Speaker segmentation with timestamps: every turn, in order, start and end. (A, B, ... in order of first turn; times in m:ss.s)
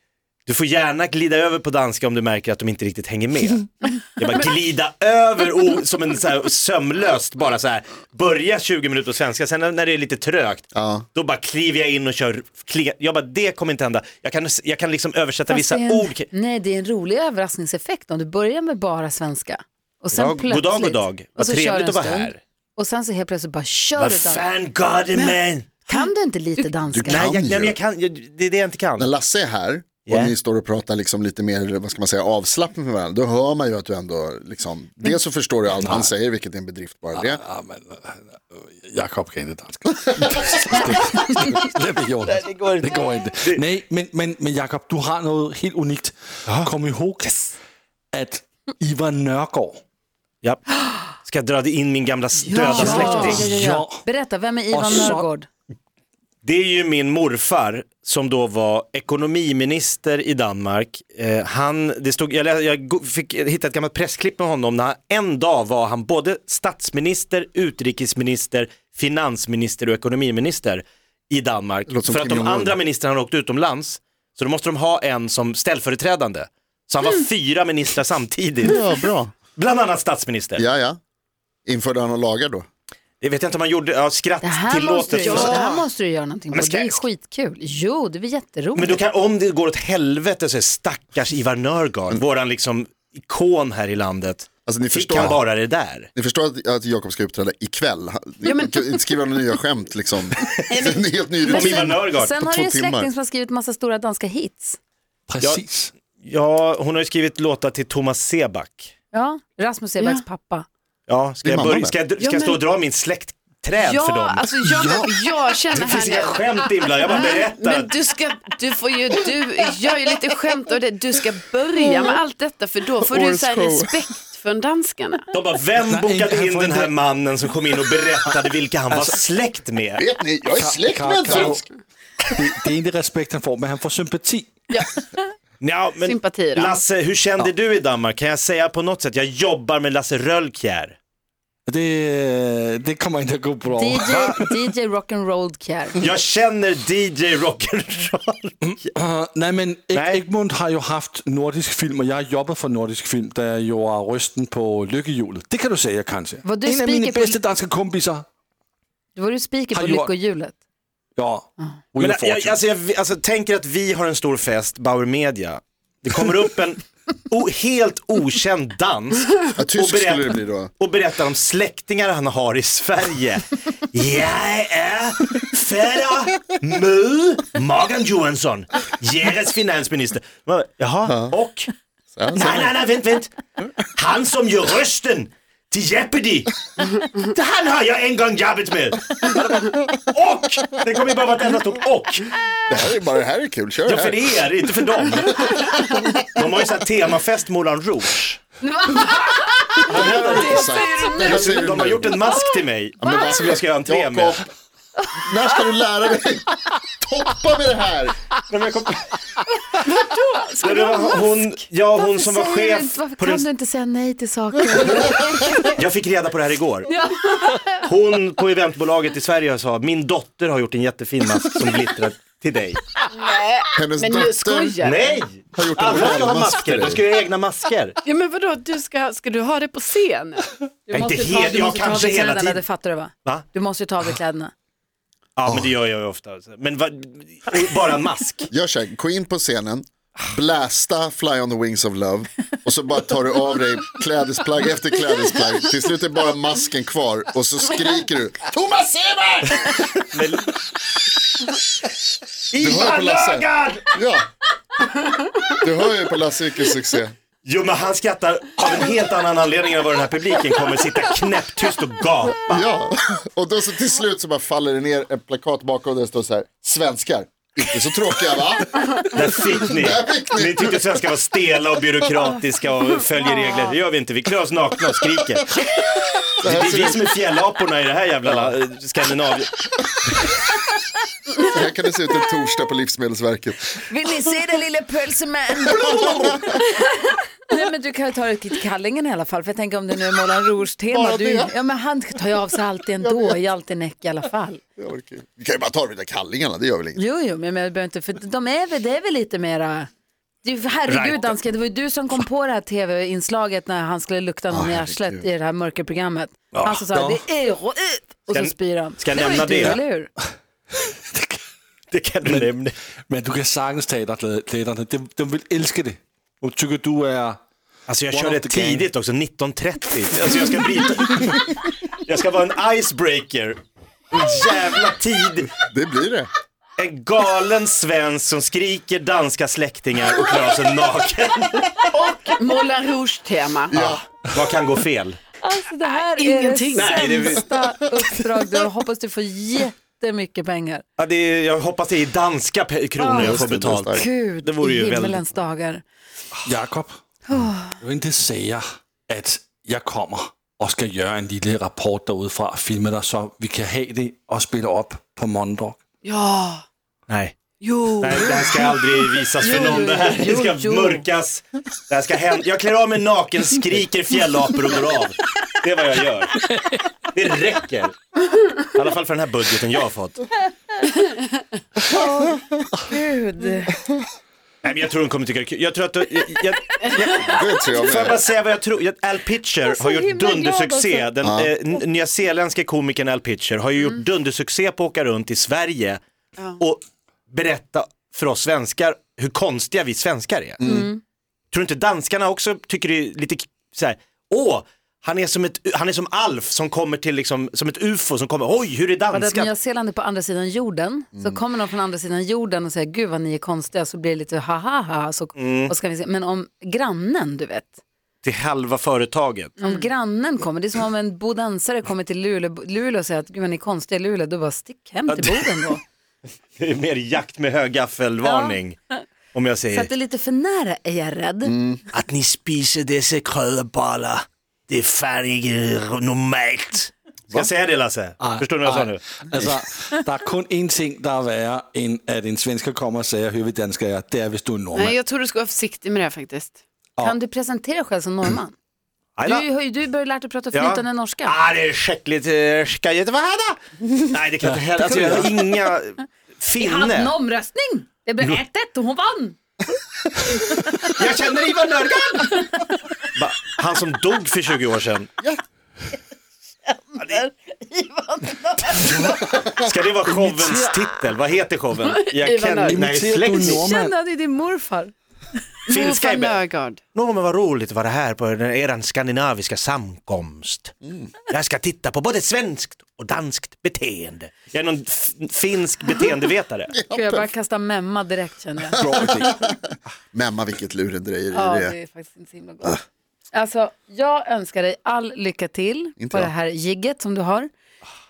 0:00.4-0:16.3 A
0:10.7-0:11.0 B
0:15.5-0:24.4 C
0:20.1-0:22.4 A
0:24.0-0:25.7 A
0:25.2-0:26.1 D
0:25.9-0:27.3 C
0:26.9-0:27.8 B
0:27.0-0:29.1 A
0:29.0-0:37.4 B
0:30.0-0:30.3 A
0:35.8-0:36.1 E
0:37.1-0:47.4 E
0:42.3-0:42.9 A
0:48.1-0:49.8 E
0:50.4-0:53.5 A
0:52.4-0:55.5 C
0:52.6-0:54.0 E
0:54.7-0:55.3 E
0:56.4-1:18.8 A
1:11.9-1:12.8 B
1:18.6-1:19.3 B
1:19.6-1:20.6 A
1:20.6-1:21.0 B
1:21.6-1:22.6 B
1:23.2-1:25.8 A
1:24.4-1:29.0 C
1:25.2-1:25.8 D
1:26.5-1:27.0 A
1:28.7-1:36.1 A
1:34.6-1:35.4 B
1:36.1-1:43.1 B
1:38.4-1:39.0 D
1:40.7-1:41.4 D
1:41.4-1:42.3 A
1:41.5-1:44.8 C
1:45.3-1:45.9 E
1:46.2-1:48.9 A
1:49.1-1:50.7 C
1:51.1-1:54.5 A
1:51.4-1:52.0 B
1:52.2-1:52.6 D
1:53.8-2:05.3 D
1:54.7-1:55.1 B
1:55.7-1:57.9 A
2:03.0-2:04.0 B
2:05.3-2:10.0 A
2:05.8-2:06.9 E
2:08.9-2:09.2 E
2:10.0-2:11.6 B
2:10.5-2:11.6 E
2:12.3-2:14.6 E
2:15.6-2:21.0 A
2:16.0-2:16.8 D
2:21.6-2:24.5 E
2:23.7-2:26.0 C
2:26.0-2:28.9 A
2:28.6-2:38.2 E
2:29.9-2:30.2 A
2:36.4-2:37.4 C
2:39.1-2:40.6 C
2:39.7-2:40.1 E
2:41.2-2:42.6 E
2:42.0-3:01.7 A
2:49.6-2:50.7 B
3:01.0-3:01.3 B
3:02.1-3:02.8 B
3:02.3-3:03.4 A
3:03.9-3:12.3 A
3:12.7-3:14.4 B
3:13.8-3:15.8 A
3:15.4-3:16.0 B
3:16.3-3:18.4 A
3:18.6-3:21.6 C
3:19.8-3:22.2 B
3:19.8-3:24.4 A
3:23.0-3:24.5 B
3:25.2-3:28.2 B
3:28.5-3:29.1 A
3:29.8-3:31.3 D
3:30.6-3:33.4 A
3:32.0-3:35.7 C
3:34.8-3:35.1 A
3:35.7-3:36.9 A
3:36.9-3:37.8 C
3:37.8-3:43.0 A
3:43.1-3:45.2 D
3:43.7-3:44.8 B
3:44.8-3:48.0 A
3:45.5-3:47.0 B
3:48.0-3:50.5 D
3:50.9-3:54.5 C
3:50.9-3:52.6 A
3:55.4-3:58.5 A
3:55.4-3:55.7 B
3:58.5-4:09.9 B
4:09.6-4:10.6 A
4:12.5-4:13.9 A
4:12.6-4:14.3 B
4:15.4-4:17.1 B
4:17.4-4:22.7 A
4:22.5-4:30.8 B
4:29.1-4:35.6 A
4:36.4-4:39.5 A
4:36.4-4:37.0 B
4:38.2-4:38.5 B
4:41.4-4:43.7 B
4:43.9-4:54.6 C
4:45.8-4:46.3 B
4:50.9-4:51.5 B
4:53.0-4:53.4 B
4:54.8-4:57.0 B
4:56.9-4:59.9 C
5:00.4-5:10.1 C
5:00.9-5:01.3 A
5:04.5-5:05.2 B
5:06.5-5:07.2 E
5:08.3-5:09.8 A
5:09.3-5:09.8 E
5:10.8-5:11.4 E
5:11.9-5:12.7 A
5:12.2-5:12.6 E
5:13.1-5:17.4 E
5:17.9-5:23.6 A
5:18.1-5:18.9 E
5:24.1-5:25.5 A
5:25.7-5:26.3 B
5:26.8-5:32.0 A
5:31.9-5:33.8 D
5:33.7-5:34.0 B
5:33.7-5:35.2 A
5:35.4-5:40.8 C
5:35.9-5:37.4 D
5:36.7-5:37.4 A
5:41.0-5:45.3 A
5:43.0-5:45.8 C
5:43.1-5:44.1 B
5:46.4-5:55.8 E
5:47.3-5:47.8 C
5:56.0-5:56.6 D
5:57.1-5:57.3 A
5:57.6-5:58.7 D
5:58.0-6:08.0 A
5:59.4-6:01.0 C
6:08.6-6:10.2 A
6:11.8-6:13.8 C
6:14.6-6:26.0 A
6:16.8-6:17.1 D
6:17.2-6:18.2 B
6:19.6-6:21.1 C
6:21.2-6:21.5 B
6:26.6-6:30.6 A
6:30.6-6:30.9 B
6:30.6-6:31.0 C
6:31.5-6:39.5 A
6:39.1-6:47.8 C
6:45.4-6:45.7 A
6:48.2-6:49.5 A
6:49.6-6:55.8 C
6:55.1-6:55.5 A
6:56.6-6:58.8 A
6:58.2-6:59.0 C
6:59.3-6:59.9 A
6:59.7-7:01.5 C
7:01.4-7:01.8 B
7:01.9-7:09.0 A
7:08.2-7:15.0 E
7:14.7-7:16.6 D
7:17.0-7:18.5 C
7:19.2-7:19.4 A
7:19.2-7:21.4 C
7:20.5-7:27.1 A
7:24.8-7:25.5 C
7:26.6-7:29.4 C
7:30.8-7:32.5 A
7:33.1-7:35.1 A
7:36.6-7:39.2 C
7:39.4-7:43.6 A
7:41.8-7:42.8 D
7:42.6-7:43.9 E
7:43.4-7:44.9 C
7:45.7-7:46.4 A
7:45.7-7:46.8 D
7:46.9-7:50.7 A
7:50.8-7:51.1 B
7:51.3-7:56.7 A
7:56.7-7:57.3 B
7:56.9-7:59.3 C
7:58.8-7:59.6 B
7:58.8-7:59.2 E
8:00.1-8:01.8 B
8:01.3-8:02.8 C
8:03.3-8:07.5 C
8:06.0-8:06.3 B